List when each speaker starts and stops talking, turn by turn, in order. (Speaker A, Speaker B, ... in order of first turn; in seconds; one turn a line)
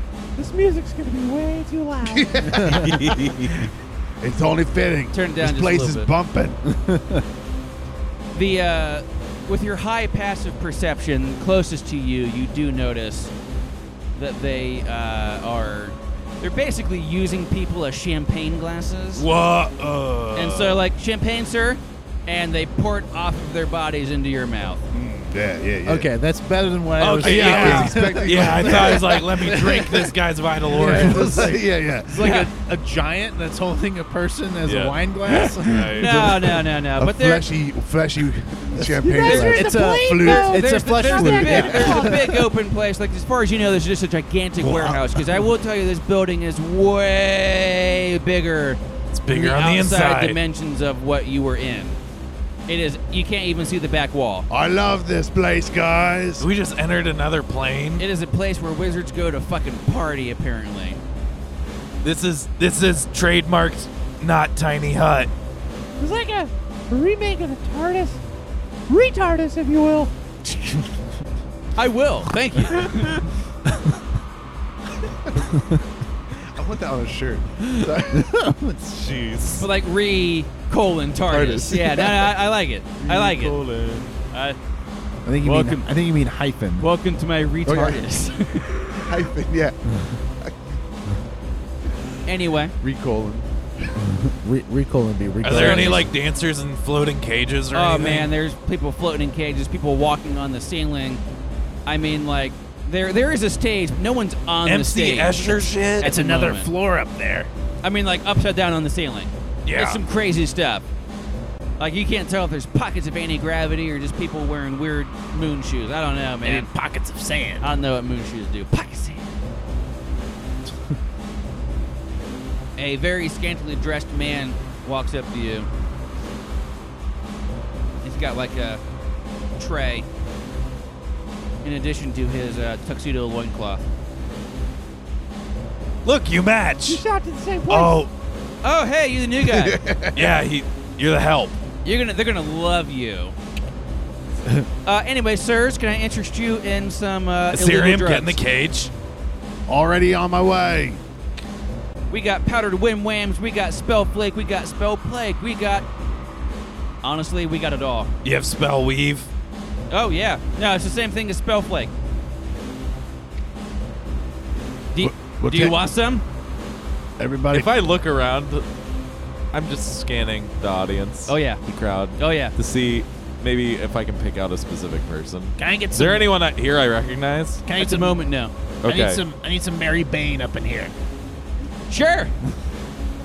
Speaker A: 0.4-2.6
Speaker B: 2.0-6.6
Speaker C: 2.7-3.5
Speaker D: 5.1-6.1
Speaker E: 6.8-7.2
Speaker D: 8.3-13.3
Speaker D: 14.2-19.3
Speaker F: 19.1-20.8
Speaker D: 20.4-24.8
Speaker B: 24.9-26.1
Speaker E: 25.9-30.0
Speaker F: 27.0-31.5
Speaker B: 27.2-30.1
Speaker E: 30.7-36.3
Speaker B: 30.7-32.3
Speaker D: 32.2-32.5
Speaker C: 34.6-36.2
Speaker D: 36.0-37.5
Speaker B: 37.0-40.6
Speaker A: 38.9-42.3
Speaker E: 39.2-42.5
Speaker D: 40.2-52.0
Speaker B: 41.5-41.9
Speaker B: 44.6-45.0
Speaker F: 49.1-50.4
Speaker D: 52.7-54.5
Speaker B: 54.5-56.5
Speaker F: 56.4-58.0
Speaker D: 58.0-61.0
Speaker F: 62.0-65.3
Speaker A: 66.0-68.2
Speaker A: 68.9-70.1
Speaker D: 71.8-73.3
Speaker B: 76.5-78.2
Speaker E: 78.1-78.8
Speaker C: 78.8-79.7
Speaker D: 79.6-83.6
Speaker C: 81.3-82.1
Speaker C: 83.0-84.1
Speaker D: 84.3-84.6
Speaker E: 85.2-86.9
Speaker D: 85.4-85.9
Speaker D: 86.8-89.0
Speaker B: 87.7-88.0
Speaker B: 88.9-90.8
Speaker D: 92.3-92.8
Speaker B: 92.8-93.5
Speaker E: 94.1-96.1
Speaker F: 95.4-98.3
Speaker D: 95.5-96.0
Speaker D: 97.7-101.2
Speaker D: 101.9-106.7
Speaker F: 104.6-106.1
Speaker G: 106.0-107.5
Speaker D: 107.8-110.9
Speaker F: 109.7-110.0
Speaker D: 111.8-116.7
Speaker G: 116.4-117.7
Speaker D: 117.6-119.3
Speaker D: 122.8-125.7
Speaker D: 128.0-128.8
Speaker D: 129.6-130.1
Speaker D: 131.6-133.8
Speaker F: 136.1-137.0
Speaker A: 136.8-138.1
Speaker F: 137.7-138.1
Speaker D: 138.6-139.8
Speaker B: 139.4-140.4
Speaker F: 140.1-141.6
Speaker D: 141.8-143.4
Speaker D: 144.8-148.4
Speaker F: 147.5-148.9
Speaker B: 149.7-151.0
Speaker D: 152.1-155.9
Speaker D: 157.0-158.1
Speaker F: 158.2-159.3
Speaker D: 159.9-161.9
Speaker D: 164.9-166.2
Speaker B: 165.0-165.8
Speaker B: 167.2-167.7
Speaker C: 167.5-168.7
Speaker C: 169.5-177.7
Speaker D: 171.3-171.6
Speaker D: 172.2-172.6
Speaker G: 175.6-176.3
Speaker G: 177.7-178.2
Speaker D: 177.8-178.5
Speaker C: 178.8-179.2
Speaker G: 178.8-180.9
Speaker D: 181.9-182.3